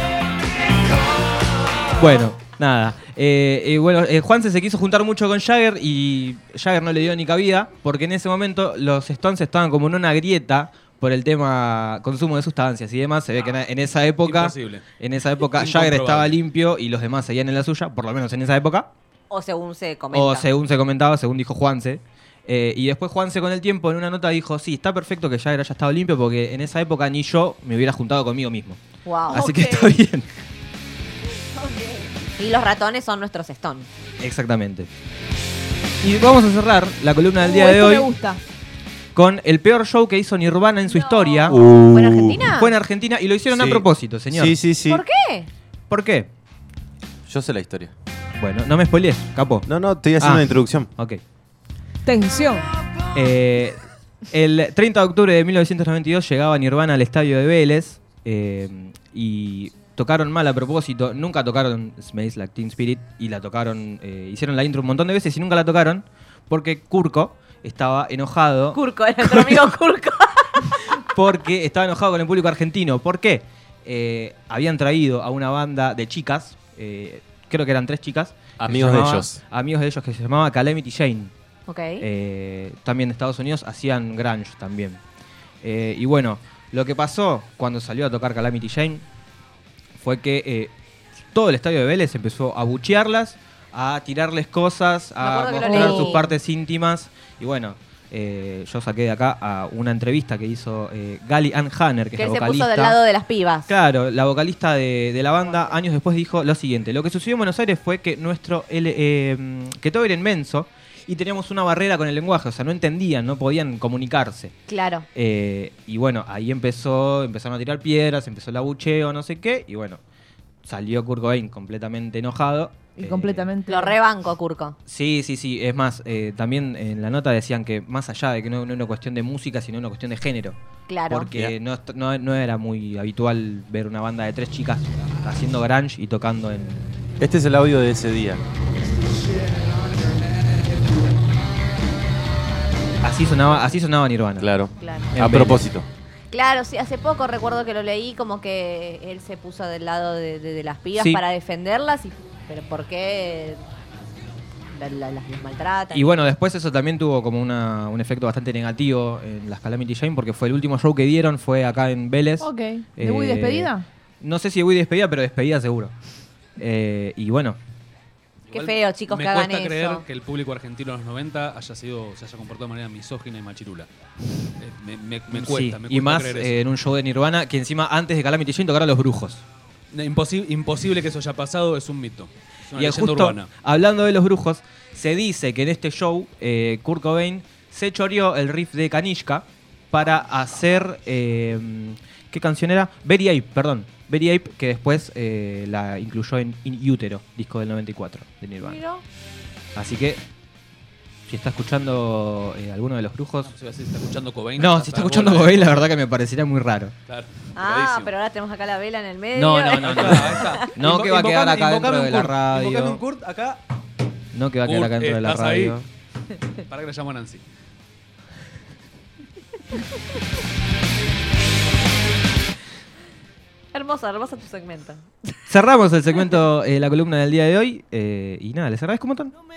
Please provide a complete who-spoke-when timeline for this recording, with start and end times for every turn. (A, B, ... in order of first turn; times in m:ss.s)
0:02.0-0:18.9 A
0:14.2-0:14.8 B
0:15.4-0:16.4 B
0:19.3-0:20.5 C
0:20.1-0:30.3 A
0:29.0-0:29.8 C
0:29.6-0:29.9 D
0:31.5-0:33.9 C
0:34.2-0:34.9 A
0:36.0-0:38.1 A
0:37.4-0:38.4 D
0:39.1-0:41.6 A
0:40.8-0:41.6 D
0:41.5-0:42.4 E
0:41.9-0:42.7 C
0:42.5-0:44.6 A
0:43.5-0:45.0 E
0:44.9-0:45.5 C
0:45.9-0:46.3 A
0:47.2-0:47.9 E
0:48.4-0:51.2 A
0:49.6-0:50.9 E
0:52.0-0:52.7 D
0:53.1-0:53.8 A
0:54.3-1:09.7 A
1:08.7-1:10.8 C
1:10.9-1:21.3 A
1:18.6-1:19.4 E
1:21.7-1:22.0 C
1:22.0-1:25.0 A
1:25.6-1:29.0 A
1:30.0-1:30.7 A
1:31.3-1:43.0 A
1:35.2-1:36.3 C
1:35.6-1:36.2 D
1:42.2-1:43.7 C
1:43.7-1:54.5 A
1:54.7-1:55.0 C
1:55.1-2:00.0 A
2:00.6-2:03.5 A
2:03.0-2:04.0 D
2:03.7-2:04.8 C
2:04.9-2:10.6 A
2:10.9-2:11.3 C
2:11.1-2:17.1 A
2:17.2-2:18.4 E
2:23.0-2:24.5 A
2:24.4-2:25.9 E
2:24.8-2:25.1 C
2:25.1-2:25.7 A
2:26.3-2:33.6 C
2:30.9-2:31.2 A
2:34.7-2:36.1 C
2:35.9-2:45.9 A
2:42.4-2:43.8 D
2:46.6-2:47.6 A
2:48.5-2:53.9 B
2:48.5-2:50.0 C
2:54.6-2:56.6 B
2:55.3-2:59.4 A
2:59.9-3:03.5 B
3:02.7-3:18.8 A
3:18.6-3:19.0 C
3:19.8-3:20.2 A
3:21.3-3:23.5 A
3:23.4-3:25.8 B
3:24.6-3:26.9 A
3:27.1-3:28.1 B
3:27.5-3:30.7 C
3:29.3-3:33.0 A
3:29.7-3:33.6 B
3:34.3-3:35.8 A
3:34.6-3:35.8 B
3:36.7-3:37.4 B
3:43.7-3:45.0 C
3:45.5-3:49.3 A